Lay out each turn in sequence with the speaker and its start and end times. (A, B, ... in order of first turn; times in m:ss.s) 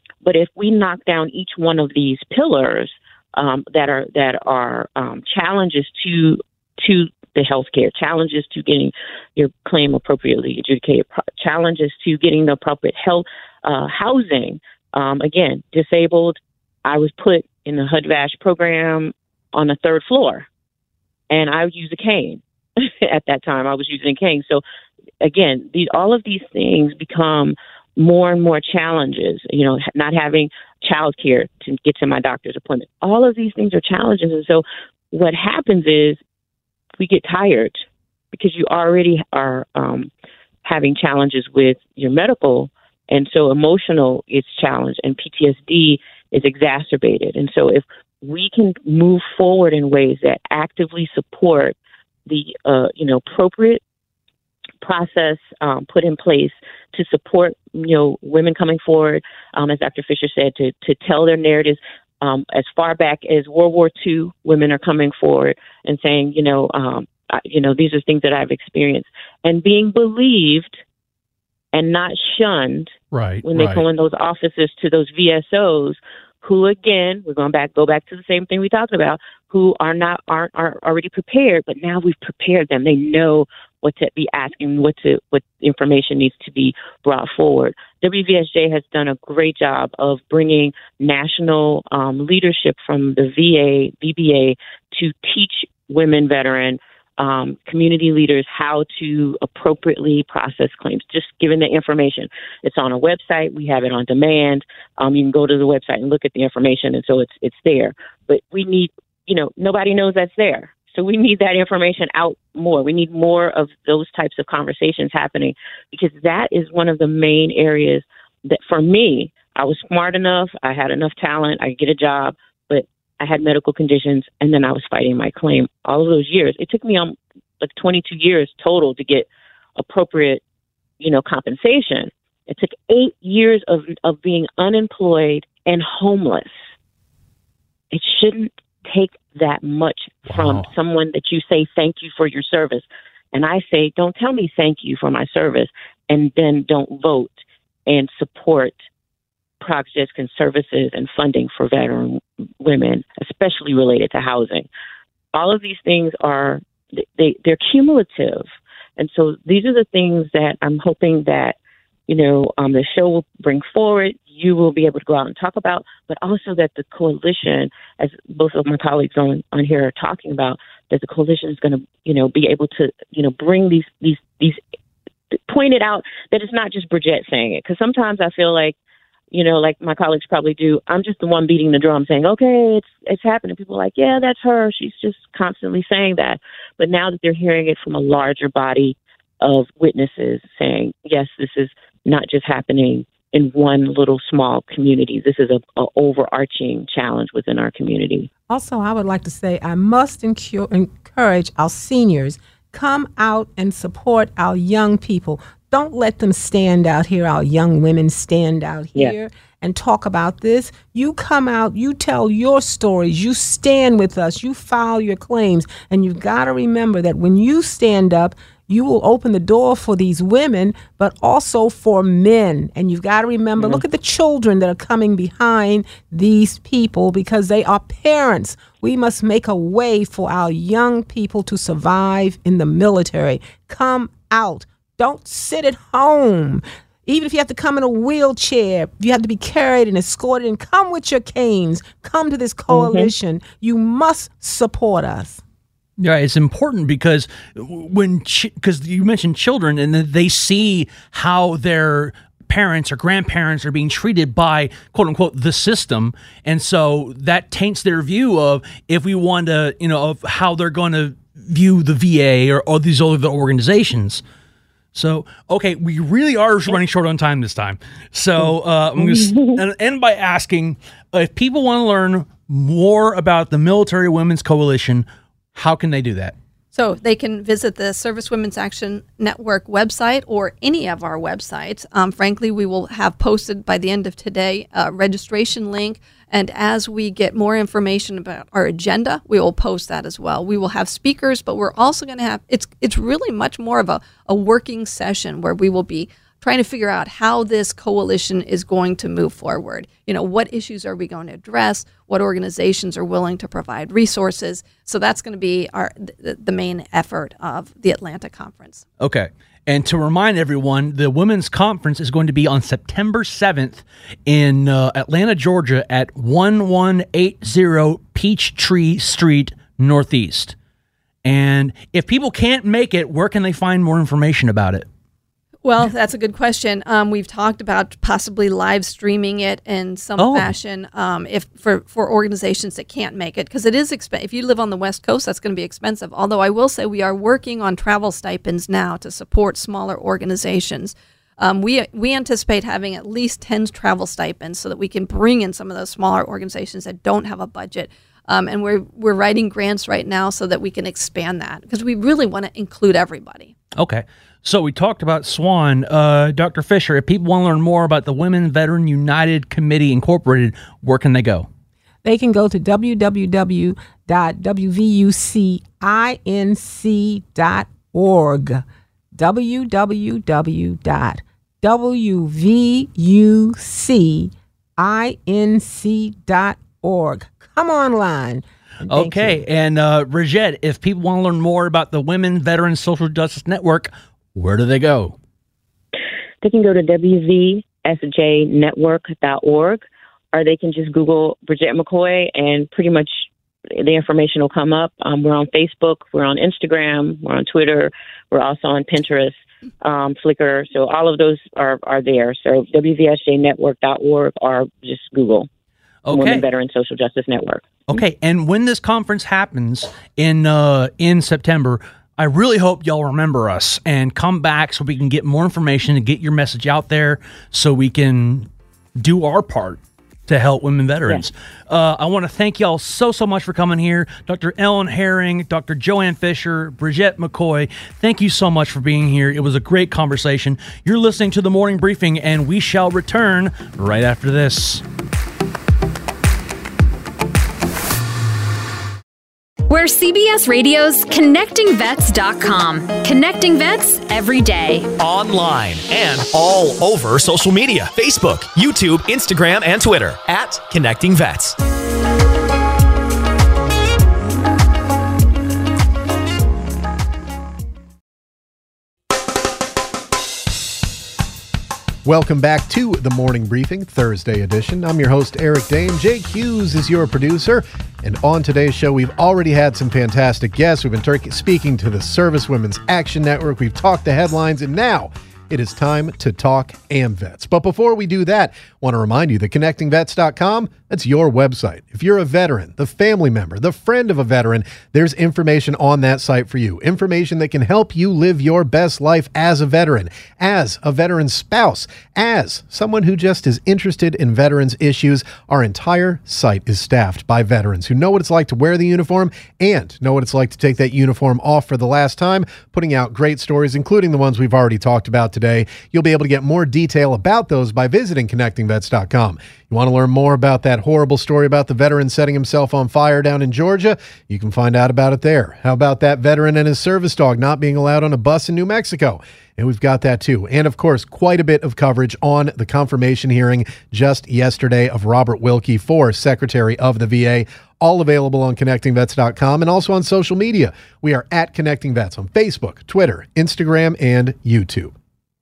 0:00.2-0:20.5 A
0:21.3-0:24.6 A
0:25.2-0:36.2 A
0:37.0-0:40.1 A
0:40.6-0:51.8 A
0:52.3-0:53.8 A
0:54.8-1:10.8 A
1:11.7-1:12.9 A
1:13.1-1:13.8 B
1:13.4-2:10.4 A
2:11.0-2:16.5 A
2:17.9-2:28.8 A
2:20.3-2:20.6 B
2:29.6-2:34.7 A
2:35.3-2:38.5 A
2:39.0-2:41.6 A
2:42.1-2:54.6 A
2:55.4-2:58.8 A
2:59.3-3:18.3 A
3:18.5-4:05.4 C
3:43.6-3:43.8 A
4:02.7-4:03.1 A
4:06.0-4:24.2 B
4:24.9-4:36.4 B
4:29.0-4:29.6 A
4:36.7-5:08.8 D
5:09.0-5:20.6 B
5:21.2-5:24.9 B
5:25.6-5:53.5 D
5:30.2-5:30.5 B
5:53.8-6:01.5 B
6:02.0-6:08.6 C
6:09.2-6:19.4 C
6:18.9-6:25.2 B
6:26.4-6:45.5 A
6:46.0-6:46.4 B
6:46.1-6:48.0 A
6:47.9-7:14.8 B
7:19.7-7:24.9 E
7:25.0-7:31.6 F
7:42.0-8:54.9 G